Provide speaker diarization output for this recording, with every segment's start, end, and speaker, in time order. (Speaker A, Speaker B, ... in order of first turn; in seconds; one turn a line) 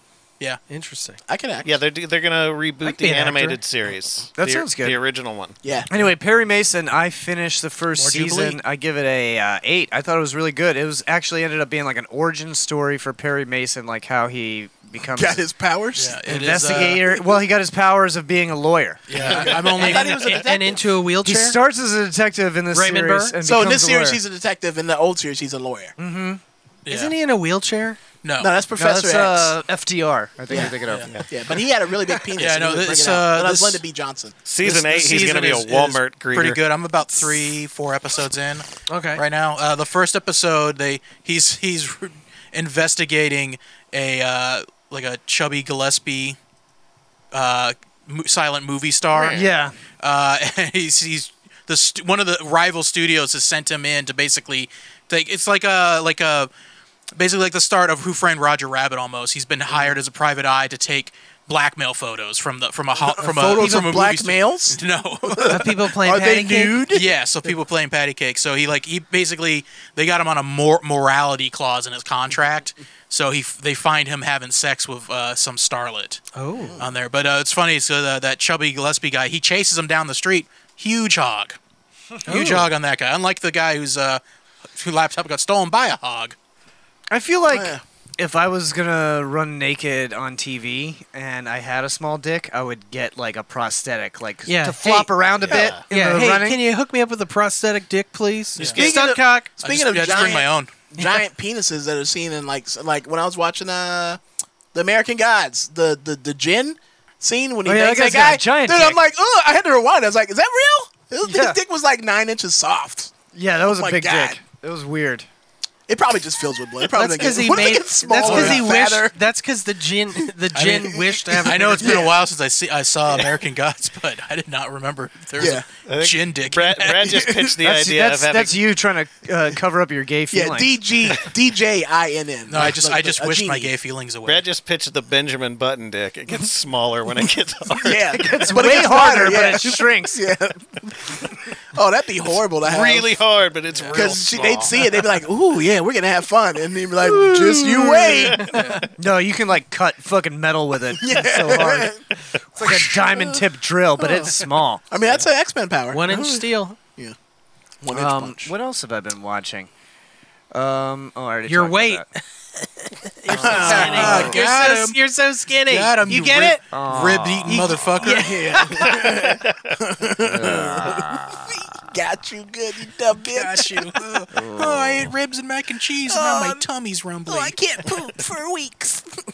Speaker A: 0.7-1.2
Speaker B: 1.3-1.8
Speaker C: 1.6-5.6
Speaker A: 2.8-3.6
Speaker D: 4.3-5.0
Speaker B: 5.6-5.9
Speaker D: 5.9-15.4
Speaker E: 8.0-8.6
Speaker A: 8.0-8.4
Speaker B: 15.1-16.2
Speaker E: 15.9-17.0
Speaker D: 16.2-19.0
Speaker E: 19.1-20.3
Speaker C: 19.1-20.8
Speaker B: 19.1-20.8
Speaker A: 19.8-21.6
Speaker D: 21.2-24.2
Speaker A: 22.7-23.4
Speaker B: 23.4-25.9
Speaker D: 26.0-26.4
Speaker E: 26.9-27.1
Speaker A: 26.9-28.0
Speaker E: 28.2-28.5
Speaker B: 28.4-29.5
Speaker D: 28.8-31.2
Speaker B: 30.5-30.8
Speaker B: 31.3-34.3
Speaker E: 32.4-33.8
Speaker C: 34.4-36.6
Speaker E: 34.6-46.4
Speaker A: 38.9-39.2
Speaker E: 47.3-49.4
Speaker C: 49.1-49.4
Speaker D: 49.3-49.7
Speaker E: 50.0-56.5
Speaker E: 57.1-65.7
Speaker B: 63.0-67.0
Speaker A: 65.5-66.9
Speaker E: 66.9-76.2
Speaker A: 76.3-76.8
Speaker E: 76.8-81.6
Speaker E: 82.2-84.2
Speaker A: 82.3-82.7
Speaker E: 84.8-86.3
Speaker D: 87.1-96.6
Speaker B: 87.5-87.8
Speaker A: 94.5-95.3
Speaker C: 95.4-95.8
Speaker A: 95.9-99.5
Speaker C: 98.6-98.9
Speaker B: 98.7-104.2
Speaker E: 99.6-100.7
Speaker B: 104.7-113.1
Speaker D: 107.6-109.0
Speaker D: 111.2-111.6
Speaker D: 113.3-115.2
Speaker B: 113.7-114.4
Speaker B: 115.9-119.2
Speaker A: 116.8-122.0
Speaker E: 118.2-118.6
Speaker E: 120.5-120.9
Speaker B: 121.1-122.1
Speaker E: 121.4-127.1
Speaker C: 123.1-123.3
Speaker B: 125.4-125.6
Speaker C: 125.8-128.6
Speaker B: 127.0-127.5
Speaker D: 127.6-130.7
Speaker B: 130.3-133.7
Speaker E: 132.5-134.4
Speaker C: 134.2-138.4
Speaker B: 137.8-143.1
Speaker D: 138.1-140.1
Speaker C: 142.6-145.2
Speaker B: 143.9-148.6
Speaker D: 147.1-148.3
Speaker C: 148.1-148.9
Speaker D: 148.9-151.9
Speaker B: 151.0-152.0
Speaker D: 152.6-154.8
Speaker B: 154.9-157.1
Speaker A: 155.9-156.8
Speaker B: 157.8-158.5
Speaker D: 157.9-159.7
Speaker D: 160.5-162.0
Speaker A: 161.5-166.7
Speaker B: 163.4-164.3
Speaker E: 163.4-165.0
Speaker D: 163.5-164.3
Speaker E: 165.7-168.6
Speaker D: 166.7-167.7
Speaker A: 167.5-168.9
Speaker B: 168.0-174.2
Speaker C: 168.9-169.8
Speaker D: 170.2-171.6
Speaker E: 173.3-177.6
Speaker D: 174.3-175.1
Speaker B: 176.1-176.6
Speaker B: 177.3-179.0